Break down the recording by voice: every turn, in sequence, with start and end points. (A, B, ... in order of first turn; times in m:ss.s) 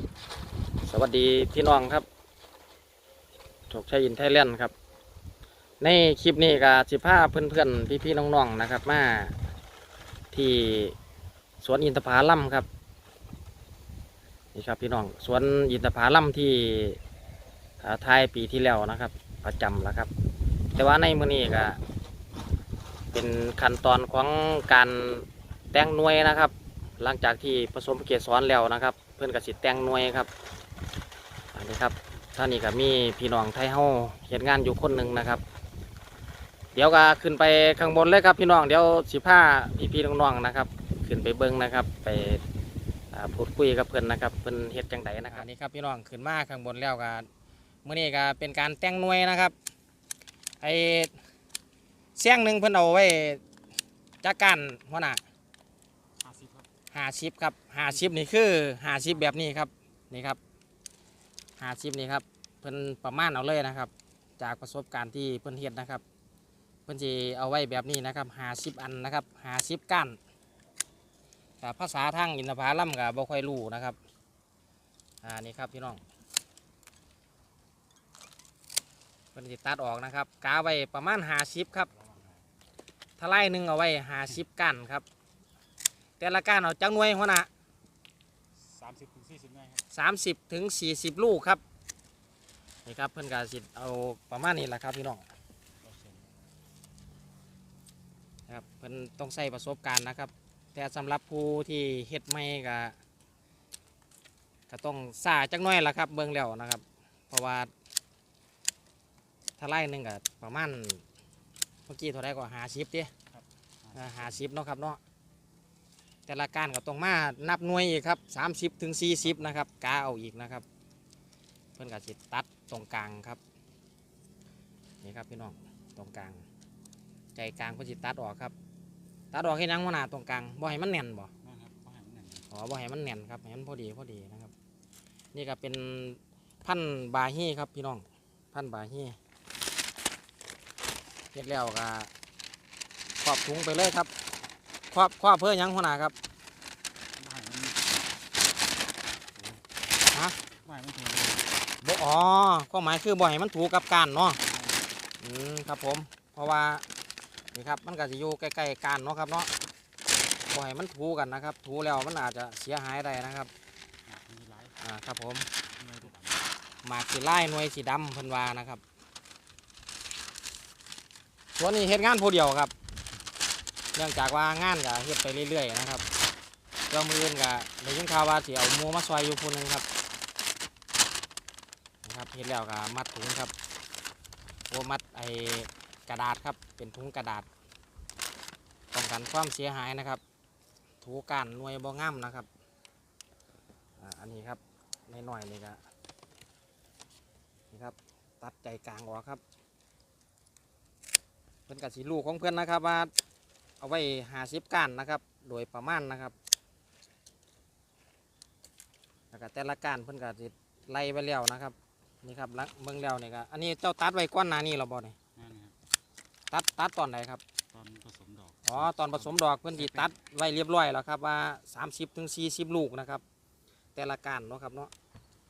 0:00.8-0:02.0 A
0:03.7-0:04.7 A
0:05.8-0:09.4 A
0:10.3-0:11.0 A
0:11.6-0:12.7 A
0:14.5-0:17.0 A
0:17.8-0:20.1 A
0:20.8-0:21.8 A
0:23.1-0:30.3 A
0:31.5-0:35.4 A
0:36.7-0:42.4 A
0:43.1-0:47.3 A
0:47.8-0:49.6 A
0:50.6-0:51.2 A
0:52.2-0:53.4 A
0:54.2-0:55.2 A
0:56.2-0:56.7 B
0:56.9-1:00.4 A
1:01.6-1:06.0 A
1:06.9-1:10.2 A
1:11.6-1:14.0 A
1:15.2-1:16.0 A
1:19.3-1:21.9 A
1:21.9-1:22.4 B
1:23.2-1:25.0 A
1:26.2-1:27.5 A
1:28.6-1:29.8 B
1:29.9-1:31.6 A
1:32.8-1:35.2 A
1:35.8-1:36.3 B
1:38.5-1:43.0 A
1:44.7-1:47.7 A
1:49.6-1:51.0 A
1:51.9-1:53.1 A
1:53.3-1:54.4 B
1:53.9-1:55.0 A
1:56.3-2:00.6 A
2:01.8-2:03.4 A
2:05.0-2:06.4 A
2:07.3-2:08.5 A
2:09.3-2:11.3 A
2:11.4-2:12.5 B
2:12.5-2:14.5 A
2:15.3-2:19.2 A
2:21.3-2:22.1 A
2:23.2-2:24.1 A
2:24.9-2:26.1 A
2:27.2-2:28.2 B
2:29.3-2:29.6 B
2:30.1-2:30.4 A
2:30.6-2:31.6 B
2:31.8-2:34.4 A
2:34.4-2:35.0 B
2:35.2-2:36.8 A
2:37.5-2:39.5 A
2:40.5-2:43.5 A
2:44.0-2:44.8 B
2:44.8-2:45.5 A
2:45.8-2:46.5 B
2:46.8-2:48.8 A
2:51.6-2:52.7 A
2:53.9-2:56.0 A
2:56.9-2:59.8 A
3:02.0-3:03.5 A
3:04.7-3:07.5 A
3:08.9-3:10.2 A
3:11.0-3:12.5 A
3:14.0-3:15.8 A
3:17.7-3:19.4 A
3:21.7-3:23.1 A
3:23.8-3:26.4 A
3:29.3-3:35.2 A
3:35.4-3:35.8 B
3:36.5-3:37.4 A
3:37.7-3:40.1 B
3:38.6-3:43.2 A
3:43.9-3:44.9 A